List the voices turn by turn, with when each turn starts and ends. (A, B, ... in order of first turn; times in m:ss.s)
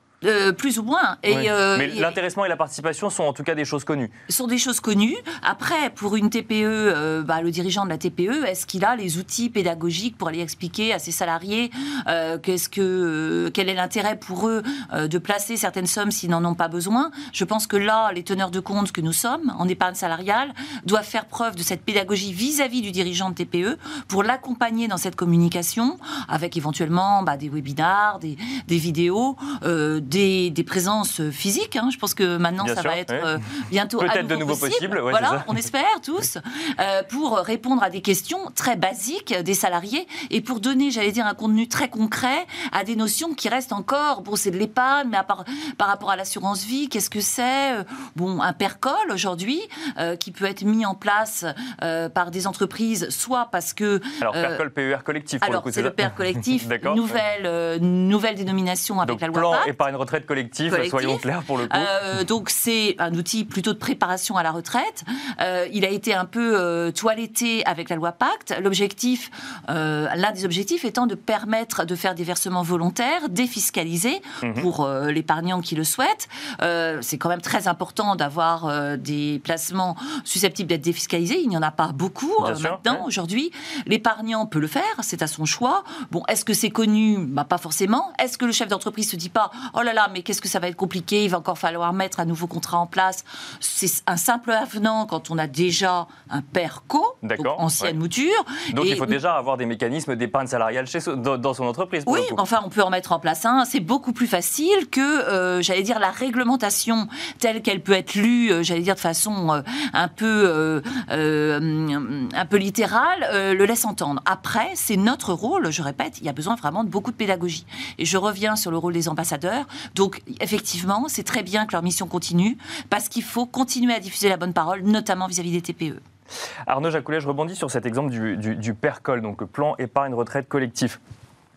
0:00.2-0:02.1 A
0:01.3-0:04.1 B
0:04.3-0:54.6 A
0:32.6-0:33.3 B
0:34.0-0:35.5 B
0:54.2-0:57.2 B
0:55.4-0:59.7 A
0:59.0-1:01.9 B
1:00.7-1:39.2 A
1:14.4-1:14.6 B
1:22.4-1:23.0 B
1:37.2-1:37.9 B
1:38.7-1:42.4 B
1:42.1-2:06.0 A
2:06.7-2:11.0 B